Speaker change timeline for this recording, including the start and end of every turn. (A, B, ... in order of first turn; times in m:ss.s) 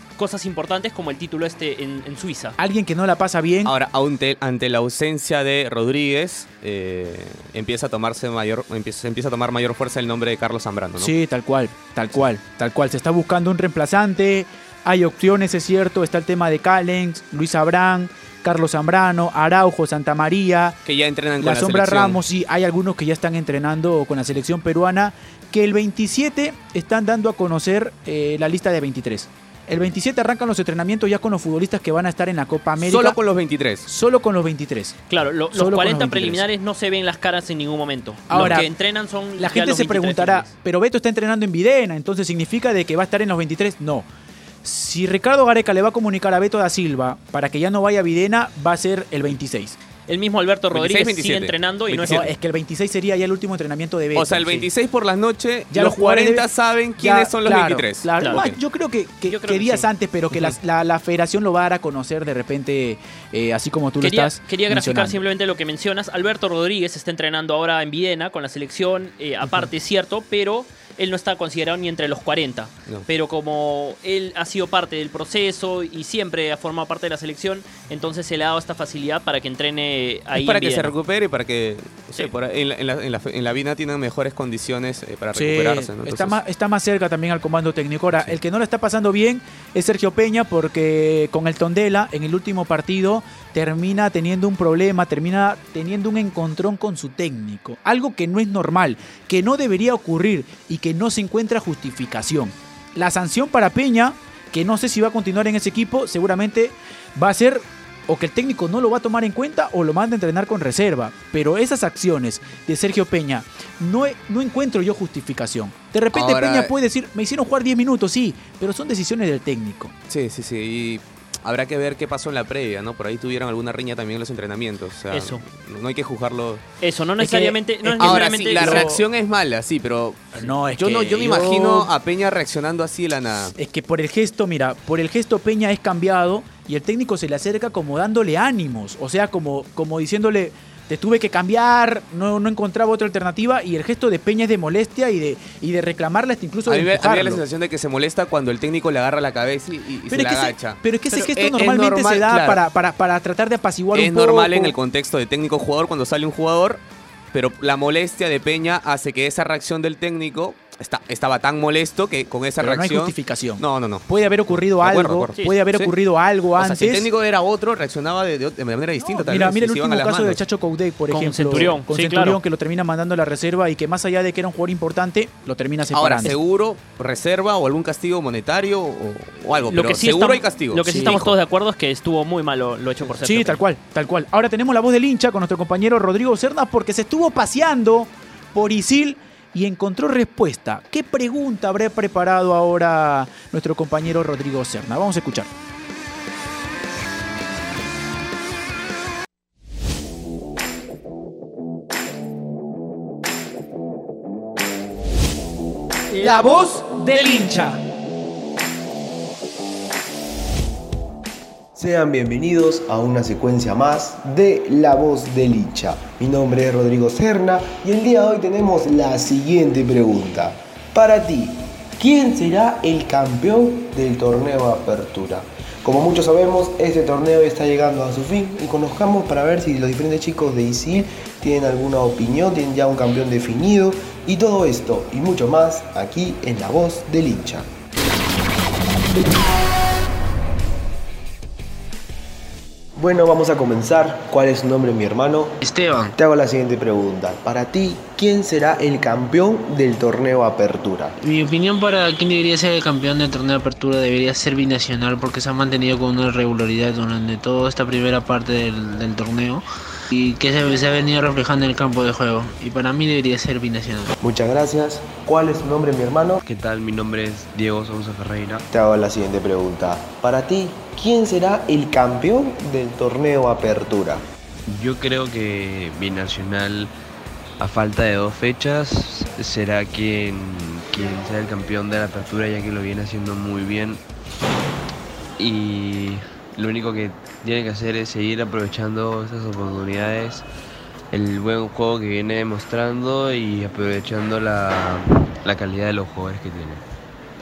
0:00.2-0:02.6 A
0:02.6-0:03.7 B
0:03.6-0:11.1 C
0:11.0-0:20.8 B
0:20.8-0:22.2 C
0:21.4-0:33.2 B
0:32.8-0:33.9 C
0:33.8-0:35.0 B
0:35.1-0:40.5 A
0:35.5-0:36.4 B
0:38.3-0:38.7 B
0:39.4-0:44.1 B
0:44.6-0:49.8 B
0:50.1-0:52.3 A
0:50.7-0:52.3 C
0:52.0-0:54.6 B
0:54.1-0:58.6 C
0:55.7-0:56.4 B
0:57.0-1:05.2 B
0:58.2-0:58.5 A
0:59.3-0:59.9 A
1:04.0-1:20.9 A
1:20.3-1:26.4 C
1:25.3-1:59.9 B
1:56.1-1:56.7 C
2:00.1-2:06.6 C
2:05.1-2:05.4 A
2:06.8-2:08.9 A
2:07.2-2:09.0 B
2:08.0-2:13.5 C
2:10.4-2:11.9 B
2:13.6-2:27.4 B
2:26.7-2:32.6 C
2:30.1-2:34.8 B
2:33.9-2:36.8 C
2:37.3-2:45.9 C
2:42.6-2:47.1 B
2:46.6-2:50.4 C
2:49.0-2:56.4 B
2:51.1-2:52.4 A
2:55.9-3:01.3 C
2:59.7-3:03.6 A
3:00.8-3:01.2 B
3:03.2-3:15.5 B
3:26.2-3:27.5 B
3:31.7-3:57.7 D
4:03.0-4:05.6 D
4:05.6-4:06.1 E
4:06.2-4:11.2 D
4:11.2-4:24.1 E
4:24.2-4:26.4 D
4:26.4-4:28.6 F
4:28.7-4:34.2 D
4:34.7-4:36.9 F
4:37.6-4:44.0 F
4:45.4-4:50.4 F
4:51.1-4:56.8 F